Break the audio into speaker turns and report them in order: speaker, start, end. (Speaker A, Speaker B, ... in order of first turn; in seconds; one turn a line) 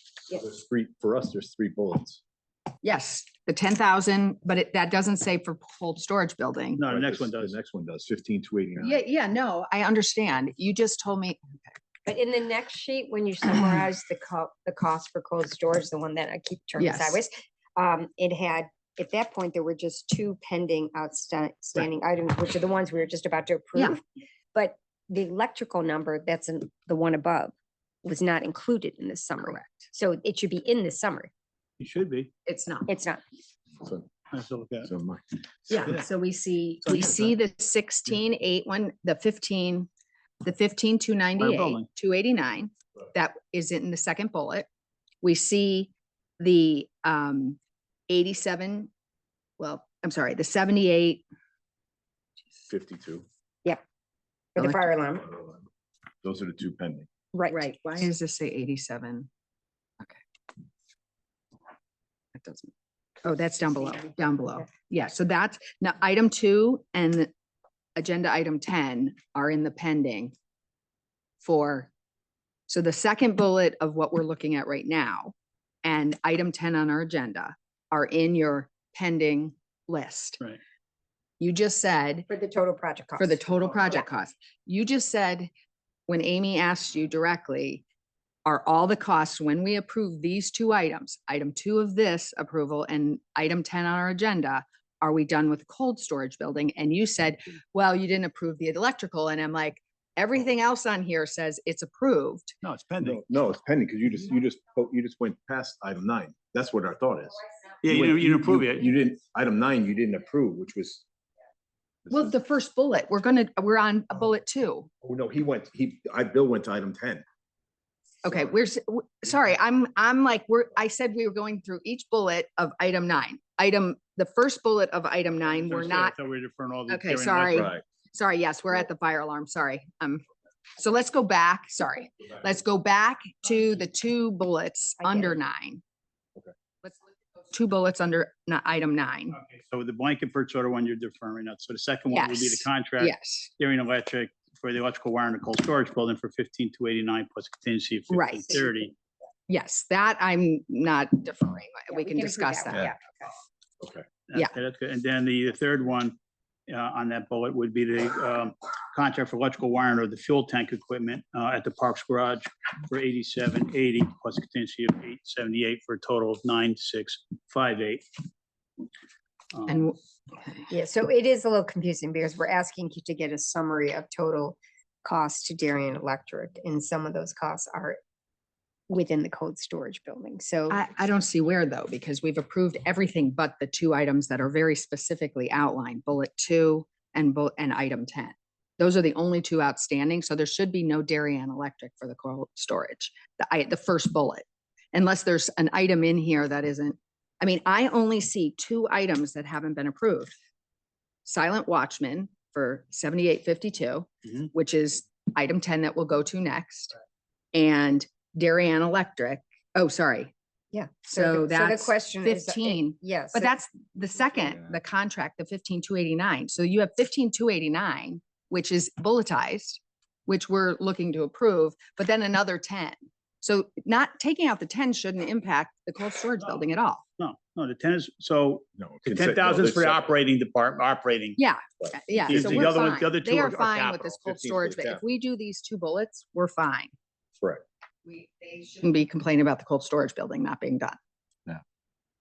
Speaker A: 0.3-2.2
Speaker B: 2.8-6.8
Speaker C: 6.8-7.6
Speaker A: 6.8-9.0
Speaker B: 8.8-11.8
Speaker D: 12.1-24.0
Speaker B: 16.8-17.2
Speaker D: 24.5-31.3
Speaker B: 29.4-29.9
Speaker C: 31.8-32.3
Speaker B: 32.5-32.9
Speaker D: 32.9-33.2
Speaker A: 33.8-34.1
Speaker C: 34.3-34.9
Speaker A: 34.8-35.9
Speaker B: 35.7-39.9
Speaker C: 36.9-37.3
Speaker B: 40.4-44.7
Speaker C: 41.4-41.9
Speaker B: 45.2-47.6
Speaker B: 48.1-48.9
Speaker B: 49.6-51.2
Speaker A: 52.7-53.2
Speaker D: 54.5-55.3
Speaker A: 56.2-57.1
Speaker D: 57.3-58.1
Speaker B: 57.5-59.3
Speaker B: 62.4-62.7
Speaker B: 63.2-67.3
Speaker D: 63.9-64.2
Speaker B: 68.0-70.3
Speaker B: 71.4-71.9
Speaker B: 72.7-80.4
Speaker B: 81.4-82.3
Speaker D: 82.3-84.1
Speaker B: 83.2-85.5
Speaker B: 86.1-87.8
Speaker B: 88.5-102.5
Speaker C: 102.6-103.2
Speaker A: 103.0-111.0
Speaker C: 107.8-108.9
Speaker B: 112.1-114.9
Speaker A: 115.0-117.2
Speaker B: 118.2-126.2
Speaker C: 125.6-127.7
Speaker B: 126.9-130.2
Speaker A: 127.5-127.8
Speaker B: 130.8-135.8
Speaker D: 135.0-135.4
Speaker B: 136.8-139.4
Speaker C: 139.4-148.9
Speaker B: 142.1-143.5
Speaker B: 148.1-148.6
Speaker B: 149.5-152.9
Speaker D: 151.9-153.3
Speaker A: 153.8-154.1
Speaker C: 154.3-156.2
Speaker C: 156.7-168.0
Speaker C: 169.6-169.9
Speaker B: 169.7-170.7
Speaker D: 170.7-178.0
Speaker D: 178.9-180.8
Speaker B: 180.7-200.3
Speaker B: 201.2-207.0
Speaker B: 207.5-210.3
Speaker D: 210.7-213.5
Speaker B: 211.1-227.0
Speaker C: 226.4-226.7
Speaker C: 227.2-231.4
Speaker A: 228.8-230.1
Speaker B: 231.4-236.9
Speaker A: 231.8-232.9
Speaker C: 232.2-234.2
Speaker A: 234.2-235.0
Speaker B: 238.1-241.0